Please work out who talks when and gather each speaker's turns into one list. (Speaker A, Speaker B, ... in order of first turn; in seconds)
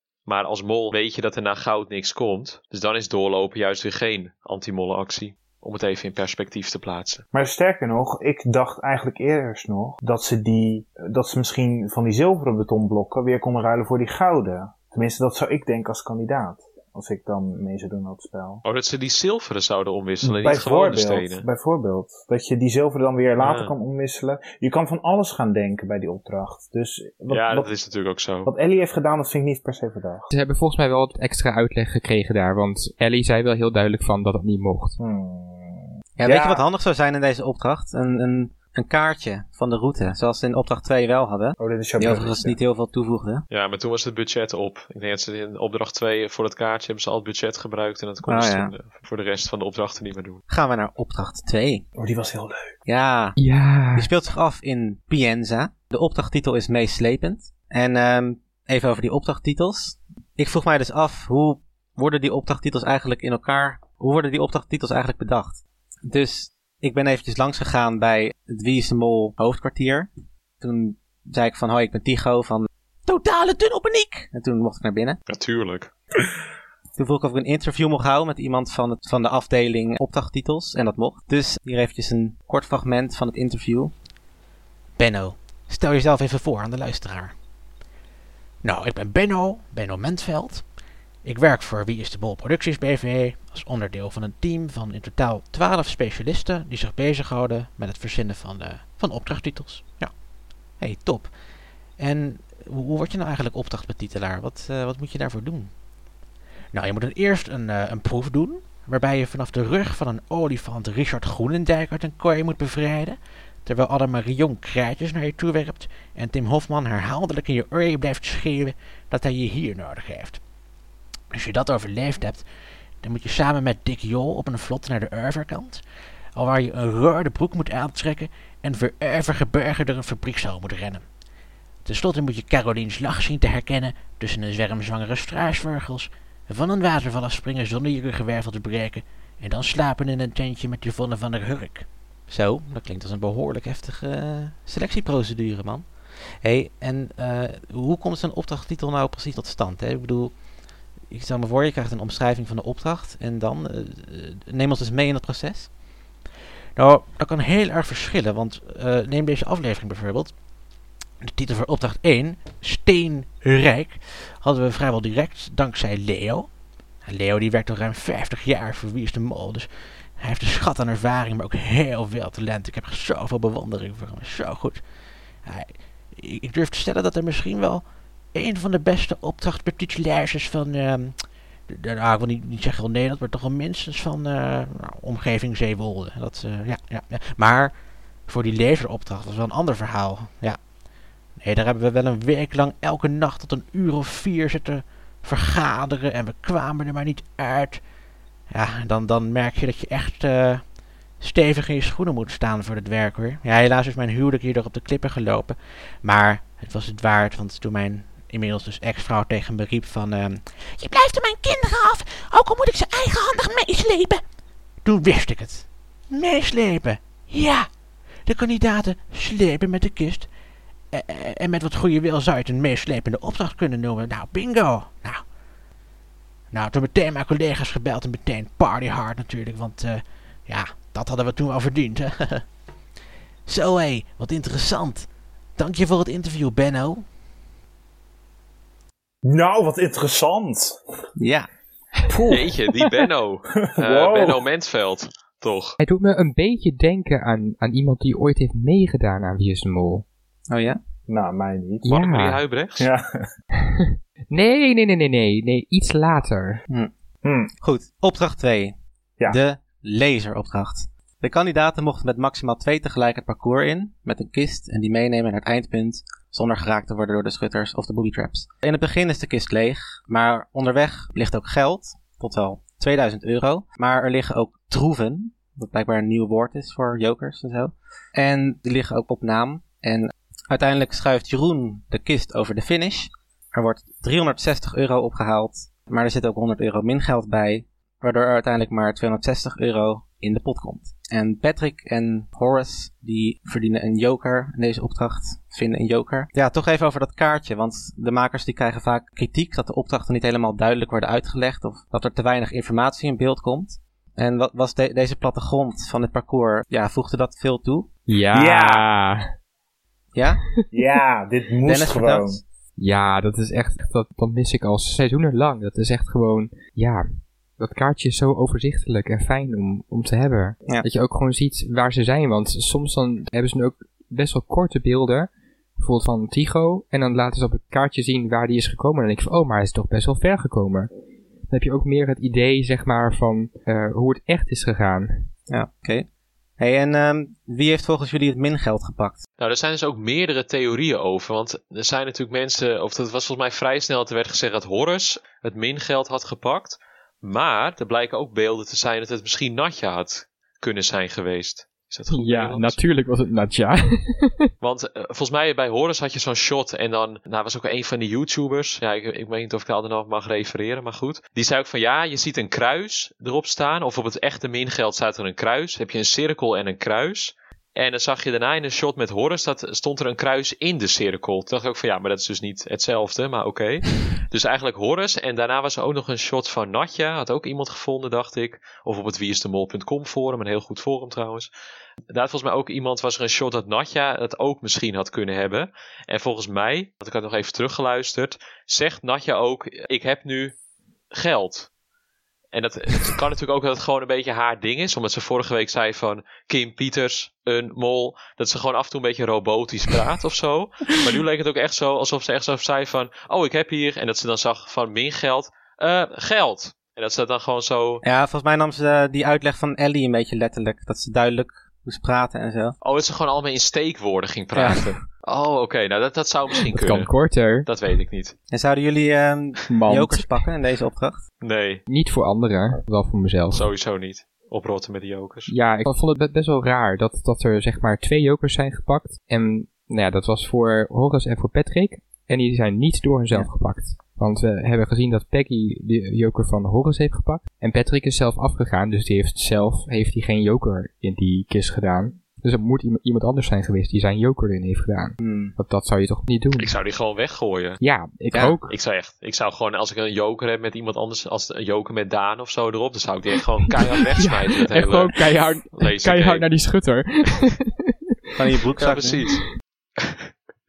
Speaker A: 0.2-7.2, 18.6-21.4, 23.4-23.8, 27.3-28.5, 43.5-50.4, 75.3-75.9, 242.3-245.8, 251.8-252.9, 339.4-352.8, 354.6-381.5, 382.1-390.6, 391.1-391.7, 392.5-408.0, 412.8-417.1, 417.6-418.3, 421.4-421.8, 423.5-425.5, 446.6-447.8, 448.7-455.1, 455.7-456.4, 458.8-460.3
Speaker B: 7.3-18.6, 20.2-27.7, 28.4-30.3, 35.0-36.6, 41.6-42.6, 52.0-52.7, 239.2-240.8, 242.1-242.5, 243.6-244.4, 251.1-251.9, 252.8-253.3, 257.2-257.5, 308.3-308.9, 310.7-312.4
Speaker C: 30.3-35.0, 53.4-54.1, 245.8-250.0, 251.8-252.4, 253.7-256.6, 308.1-309.2, 312.8-330.9, 331.5-335.3, 352.1-354.4, 416.7-417.7, 419.7-420.4, 421.9-423.7, 425.5-446.7, 447.8-448.7, 454.1-457.9
Speaker D: 36.2-43.4, 48.2-48.7, 50.5-51.9, 52.9-53.4, 53.9-70.1, 70.6-75.2, 77.0-83.9, 143.8-144.7, 146.4-150.3, 151.1-155.7, 241.2-241.5, 250.5-250.8, 257.6-258.8, 259.3-307.9, 310.1-310.5, 311.6-312.4, 335.5-336.1, 336.6-339.2, 408.0-412.8, 414.5-414.9, 418.5-421.2, 445.2-445.5, 448.3-448.6, 458.4-459.2
Speaker E: 85.0-87.3, 88.6-100.2, 100.8-105.8, 106.7-120.4, 121.3-122.4, 123.0-131.1, 131.8-144.0, 144.6-145.9, 147.6-148.5, 156.8-160.4, 161.2-166.5, 167.0-174.9, 175.4-190.7, 191.3-197.9, 198.5-214.2, 214.8-217.7, 218.2-220.3, 220.9-225.3, 226.5-232.5, 233.4-237.1